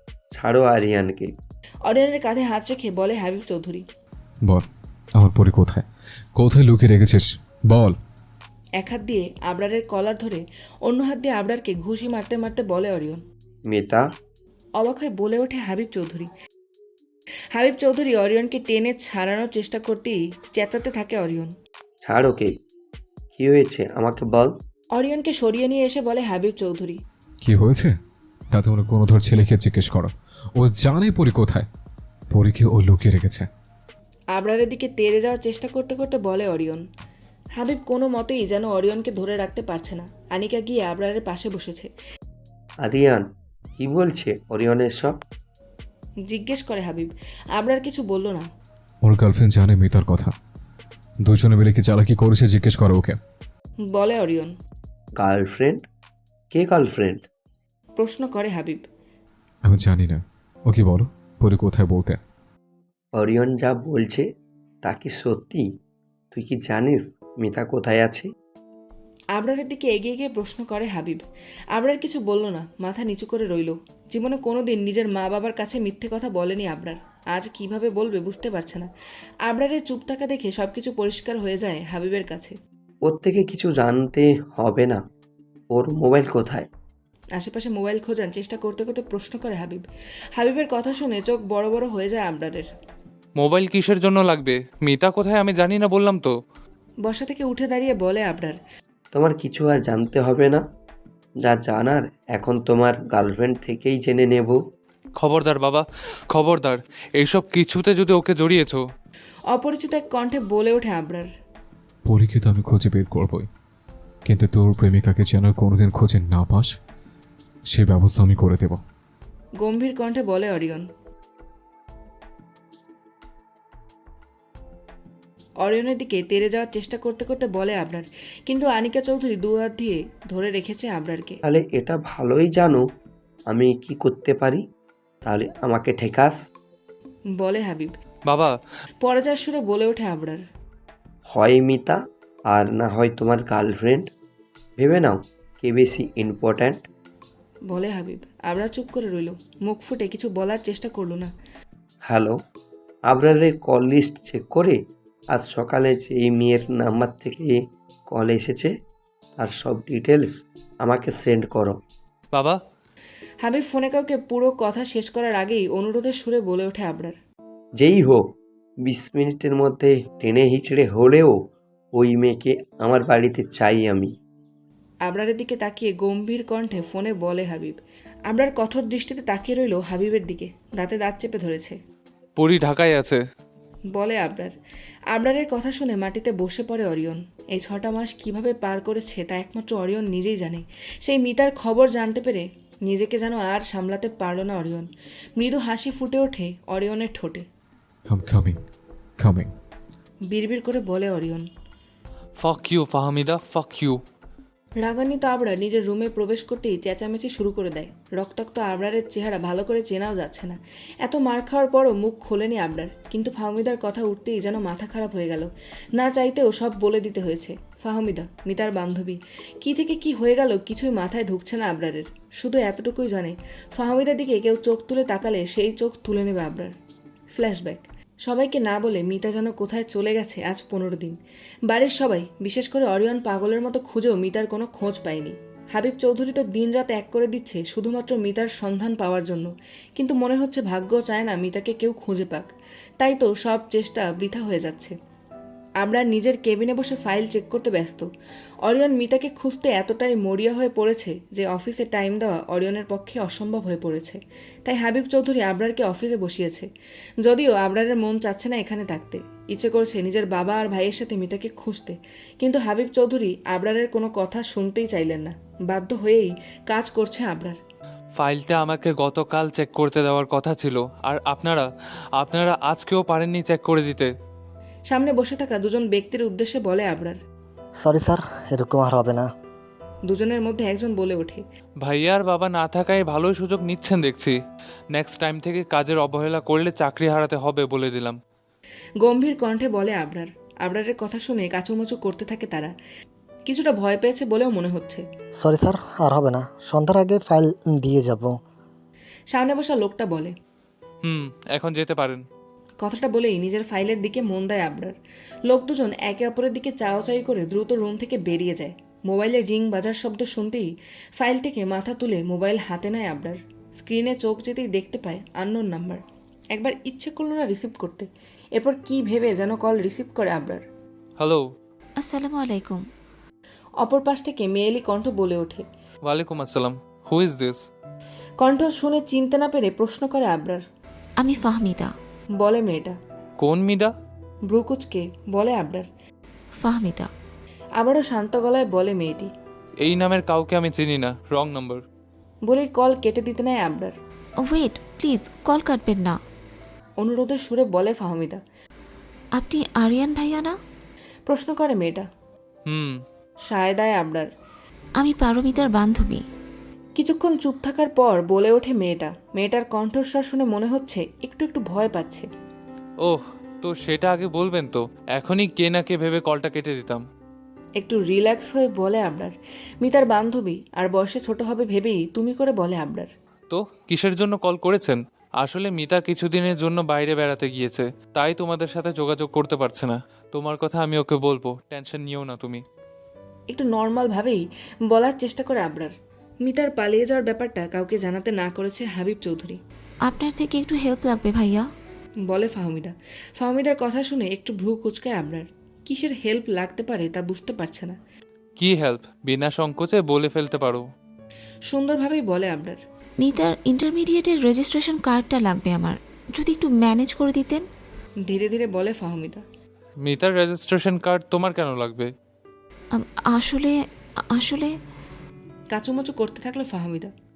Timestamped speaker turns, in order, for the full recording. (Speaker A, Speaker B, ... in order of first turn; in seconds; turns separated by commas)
Speaker A: 0.3-1.3, Speaker B: 1.9-3.8, Speaker C: 4.5-8.0, Speaker B: 8.8-13.2, Speaker A: 13.7-14.0, Speaker B: 14.8-16.3, Speaker B: 17.6-21.5, Speaker A: 22.0-22.6, Speaker A: 23.4-24.6, Speaker B: 25.0-27.0, Speaker C: 27.4-27.9, Speaker C: 28.5-31.7, Speaker C: 32.3-33.5, Speaker B: 34.4-36.8, Speaker B: 37.6-41.9, Speaker A: 42.8-43.3, Speaker A: 43.8-45.2, Speaker B: 46.3-48.5, Speaker C: 49.0-50.3, Speaker C: 51.2-53.2, Speaker B: 53.9-54.5, Speaker A: 55.2-55.9, Speaker A: 56.5-57.2, Speaker B: 58.0-58.9, Speaker C: 59.7-62.2, Speaker A: 63.2-64.3, Speaker A: 64.8-65.7, Speaker A: 66.3-68.3, Speaker B: 69.4-71.2, Speaker B: 71.7-78.9, Speaker B: 79.5-82.6, Speaker A: 83.0-85.0, Speaker A: 85.7-86.7, Speaker B: 87.4-89.8, Speaker B: 90.4-92.7, Speaker D: 93.4-96.3, Speaker B: 97.1-98.6, Speaker A: 99.1-100.6, Speaker A: 101.4-104.6, Speaker D: 105.2-108.8, Speaker B: 109.5-111.3, Speaker C: 112.1-113.5, Speaker C: 114.3-116.7, Speaker C: 117.7-118.8, Speaker B: 119.6-120.9, Speaker B: 125.6-131.4, Speaker A: 131.4-132.8, Speaker A: 133.5-134.6, Speaker A: 135.2-136.4, Speaker B: 137.4-138.0, Speaker D: 138.3-138.6, Speaker B: 139.0-140.4, Speaker A: 141.3-142.0, Speaker A: 142.5-144.1, Speaker A: 144.8-146.8, Speaker B: 147.7-151.3, Speaker A: 152.1-152.4, Speaker A: 153.1-154.8, Speaker A: 155.3-157.6, Speaker A: 158.1-158.7, Speaker A: 159.4-161.8, Speaker D: 162.3-162.6, Speaker B: 163.4-167.2, Speaker A: 167.8-168.2, Speaker A: 168.8-171.4, Speaker A: 172.0-174.1, Speaker B: 175.1-177.8, Speaker B: 178.3-181.8, Speaker D: 182.4-183.2, Speaker B: 183.9-184.5, Speaker B: 185.1-197.5, Speaker C: 198.1-198.6, Speaker C: 199.2-199.5, Speaker B: 200.3-201.4, Speaker D: 202.4-204.0, Speaker B: 204.8-226.7, Speaker B: 227.3-242.5, Speaker B: 243.0-244.9, Speaker B: 245.8-248.1, Speaker B: 248.7-256.7, Speaker B: 257.2-267.6, Speaker D: 268.2-274.1, Speaker B: 274.9-277.2, Speaker E: 277.8-279.3, Speaker B: 280.1-281.4, Speaker D: 281.8-284.4, Speaker D: 284.9-288.2, Speaker B: 289.0-292.7, Speaker B: 293.5-295.0, Speaker E: 295.4-298.4, Speaker B: 299.3-300.3, Speaker D: 301.0-302.2, Speaker B: 302.8-305.0, Speaker B: 305.5-316.0, Speaker B: 316.5-320.6, Speaker D: 321.2-321.4, Speaker F: 322.0-322.9, Speaker B: 323.8-325.7, Speaker D: 326.1-327.6, Speaker B: 328.4-330.6, Speaker F: 331.2-331.9, Speaker B: 332.4-333.0, Speaker D: 333.4-333.9, Speaker B: 334.5-335.9, Speaker F: 336.6-337.1, Speaker B: 337.8-339.3, Speaker D: 339.8-341.8, Speaker B: 342.5-344.0, Speaker F: 344.4-346.2, Speaker B: 347.0-348.4, Speaker F: 349.4-350.6, Speaker B: 351.3-352.1, Speaker D: 352.7-353.0, Speaker B: 353.5-354.3, Speaker F: 355.0-356.2, Speaker B: 357.0-362.3, Speaker D: 363.0-367.0, Speaker B: 367.8-373.1, Speaker D: 373.5-382.6, Speaker B: 383.5-385.9, Speaker B: 386.4-389.6, Speaker F: 390.1-391.7, Speaker B: 392.3-398.0, Speaker D: 398.6-400.9, Speaker B: 401.7-402.8, Speaker F: 403.2-407.6, Speaker B: 408.3-409.4, Speaker D: 410.1-412.1, Speaker F: 412.9-413.8, Speaker F: 414.3-414.7, Speaker B: 415.7-417.1